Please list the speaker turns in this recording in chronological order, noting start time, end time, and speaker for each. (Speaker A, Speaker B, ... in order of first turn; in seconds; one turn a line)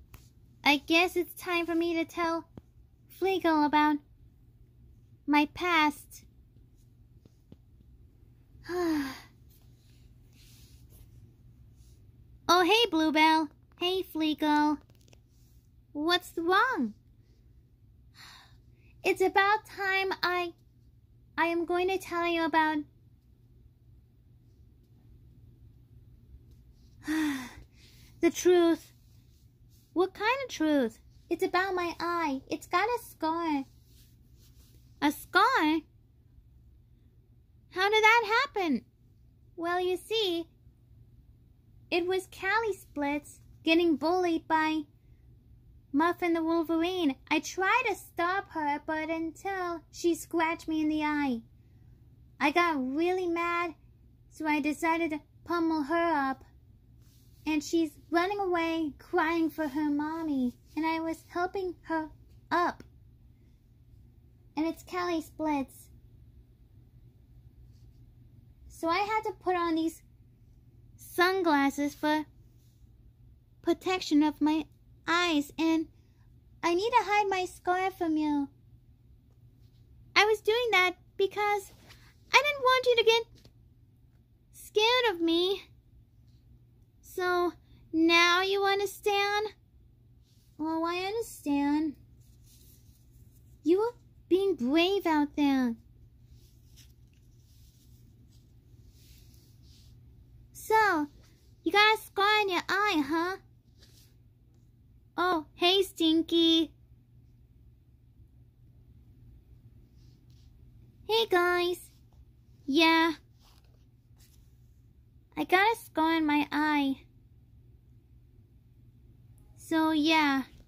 Speaker A: 0.6-2.5
Speaker A: 3.1-4.0
Speaker A: 5.3-6.2
Speaker A: 8.7-9.3
Speaker A: 12.5-14.8
Speaker A: 15.9-17.0
Speaker A: 19.0-20.5
Speaker A: 21.4-22.9
Speaker A: 27.0-27.6
Speaker A: 28.2-28.9
Speaker A: 29.9-33.7
Speaker A: 35.0-35.9
Speaker A: 37.7-38.9
Speaker A: 39.6-40.5
Speaker A: 41.9-44.9
Speaker A: 45.9-51.4
Speaker A: 52.4-53.8
Speaker A: 54.3-56.5
Speaker A: 57.5-62.9
Speaker A: 64.6-65.9
Speaker A: 68.7-70.0
Speaker A: 71.0-72.3
Speaker A: 73.6-75.9
Speaker A: 76.6-78.5
Speaker A: 80.2-81.7
Speaker A: 82.3-83.3
Speaker A: 84.5-85.6
Speaker A: 87.0-89.5
Speaker A: 90.6-92.0
Speaker A: 93.6-95.8
Speaker A: 100.5-101.1
Speaker A: 101.6-103.4
Speaker A: 105.2-106.7
Speaker A: 111.1-111.9
Speaker A: 112.7-113.2
Speaker A: 115.4-117.0
Speaker A: 119.6-120.5